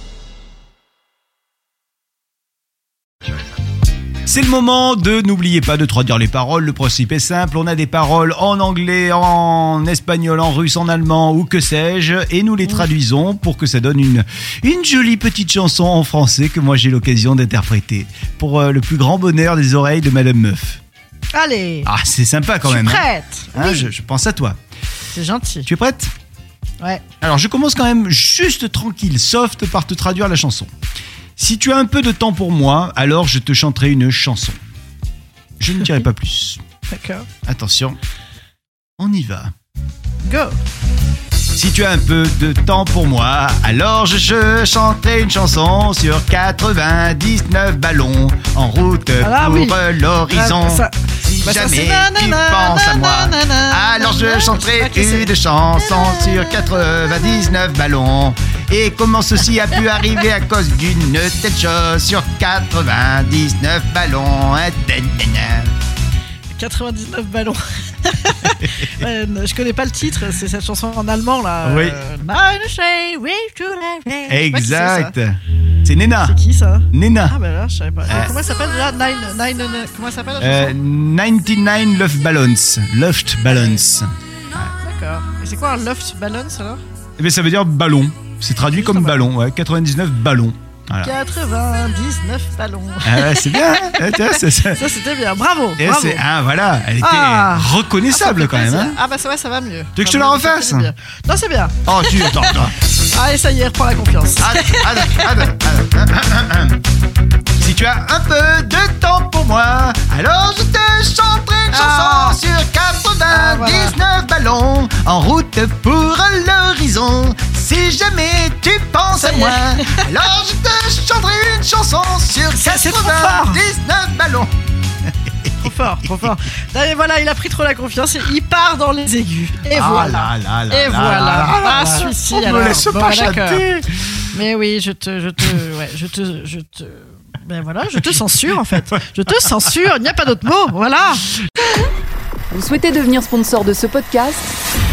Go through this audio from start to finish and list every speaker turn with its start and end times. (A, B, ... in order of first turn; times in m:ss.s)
0:04.2-0:20.8 A
0:21.3-0:21.9 B
0:21.8-0:24.6 A
0:22.6-0:23.9 B
0:25.1-0:25.7 B
0:25.7-0:26.1 A
0:27.2-0:30.7 A
0:31.4-0:34.6 A
0:35.6-0:36.6 A
0:36.9-0:37.3 B
0:37.4-0:38.0 A
0:39.0-0:39.5 A
0:40.2-0:40.5 B
0:41.5-1:05.7 A
0:49.2-0:57.2 B
1:06.5-1:15.1 B
1:11.6-1:12.0 A
1:14.3-1:16.4 A
1:16.2-1:20.8 B
1:16.9-1:17.3 A
1:18.1-1:18.3 A
1:20.4-1:24.1 A
1:23.5-1:23.8 B
1:24.7-1:26.8 B
1:27.2-1:31.1 A
1:28.6-1:29.2 B
1:31.0-1:36.2 B
1:33.0-1:34.8 A
1:35.8-1:39.0 A
1:37.0-1:45.4 B
1:40.0-1:40.9 A
1:41.8-1:42.7 A
1:44.4-1:46.8 A
1:47.6-2:04.5 A
1:51.7-1:52.4 B
1:53.3-1:54.0 B
1:59.1-2:00.1 B
2:02.6-2:03.6 B
2:05.6-2:13.7 B
2:05.6-2:06.1 A
2:09.7-2:13.9 A
2:14.3-2:21.3 B
2:22.5-2:24.5 C